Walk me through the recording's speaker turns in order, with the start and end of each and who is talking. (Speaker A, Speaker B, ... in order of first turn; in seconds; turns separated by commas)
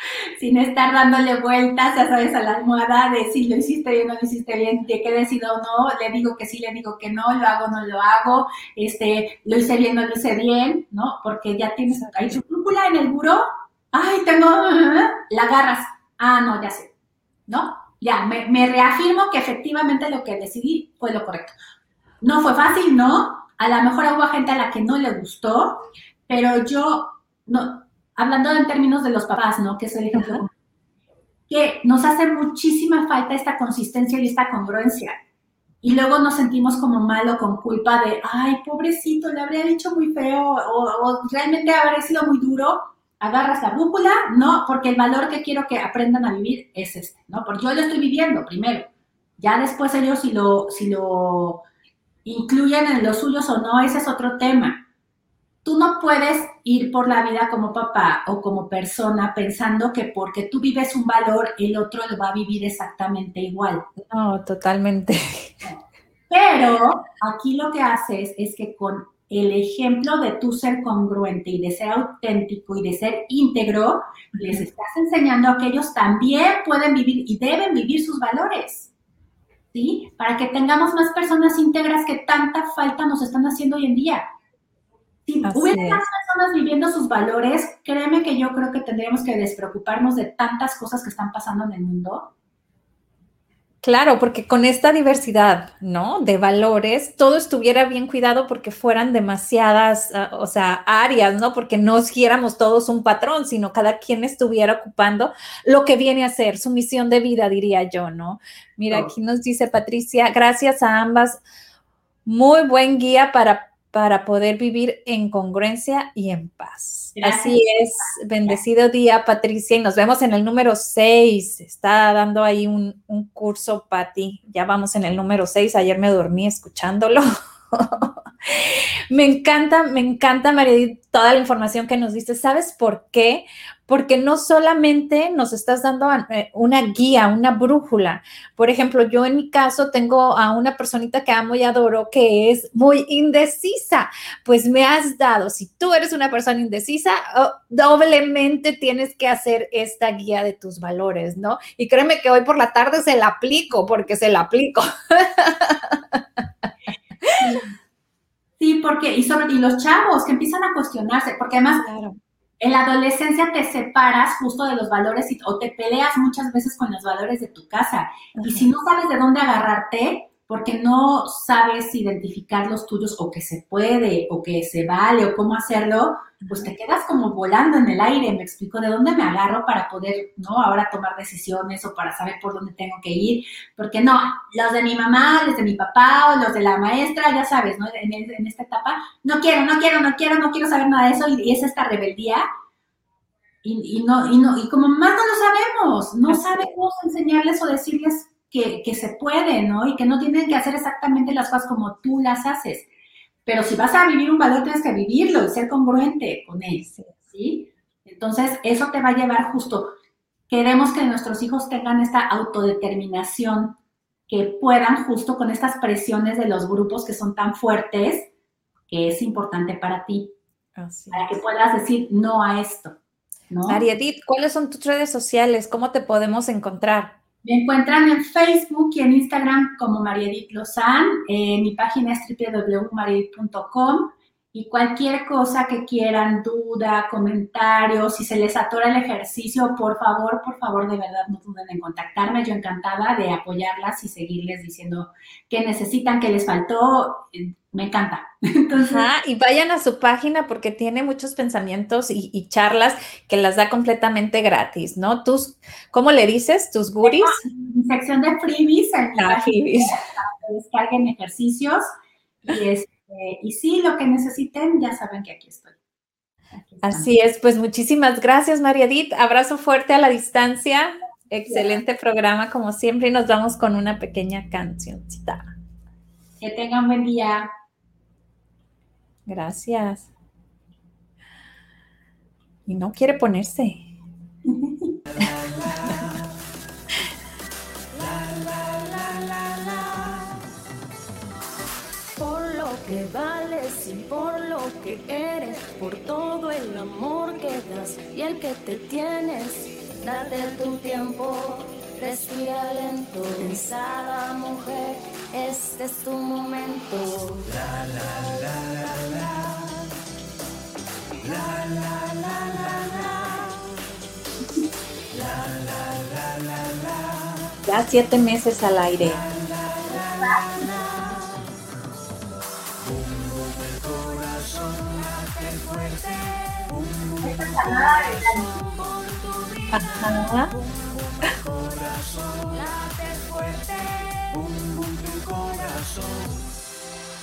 Speaker A: 0.4-16.9, Speaker B: 11.9-12.4, Speaker A: 17.5-21.5, Speaker A: 22.2-30.5, Speaker B: 30.1-30.5, Speaker A: 31.5-35.1, Speaker A: 35.8-51.6, Speaker A: 52.2-54.9, Speaker A: 55.6-63.9, Speaker B: 64.1-65.6, Speaker A: 66.3-78.9, Speaker A: 79.7-84.2, Speaker A: 85.3-92.3, Speaker B: 85.5-86.0, Speaker B: 93.8-111.4, Speaker B: 112.3-156.2, Speaker A: 117.2-118.6, Speaker B: 157.2-157.6, Speaker A: 157.3-157.7, Speaker A: 158.6-161.8, Speaker B: 161.8-162.2, Speaker A: 162.6-192.4, Speaker B: 168.4-168.7, Speaker B: 176.4-176.7, Speaker A: 193.6-202.9, Speaker B: 196.3-196.7, Speaker A: 203.5-209.9, Speaker B: 206.9-207.2, Speaker A: 210.5-213.8, Speaker A: 214.3-218.3, Speaker A: 218.9-220.3, Speaker B: 220.8-221.3, Speaker A: 221.1-223.0, Speaker A: 223.5-223.8, Speaker B: 223.7-227.2, Speaker A: 227.4-249.1, Speaker B: 248.7-257.4, Speaker A: 257.0-261.8, Speaker B: 259.2-260.0, Speaker A: 262.4-265.8, Speaker A: 266.6-267.1, Speaker B: 266.8-275.5, Speaker A: 271.5-271.7, Speaker A: 276.4-277.5, Speaker B: 279.3-280.1, Speaker B: 282.7-283.9, Speaker A: 284.5-284.9, Speaker C: 285.2-286.2, Speaker C: 287.9-290.4, Speaker C: 292.2-309.7, Speaker C: 311.2-313.6, Speaker C: 315.1-317.6, Speaker B: 317.7-319.2, Speaker C: 319.0-321.8, Speaker C: 322.8-336.5, Speaker A: 327.2-328.5, Speaker B: 329.7-330.5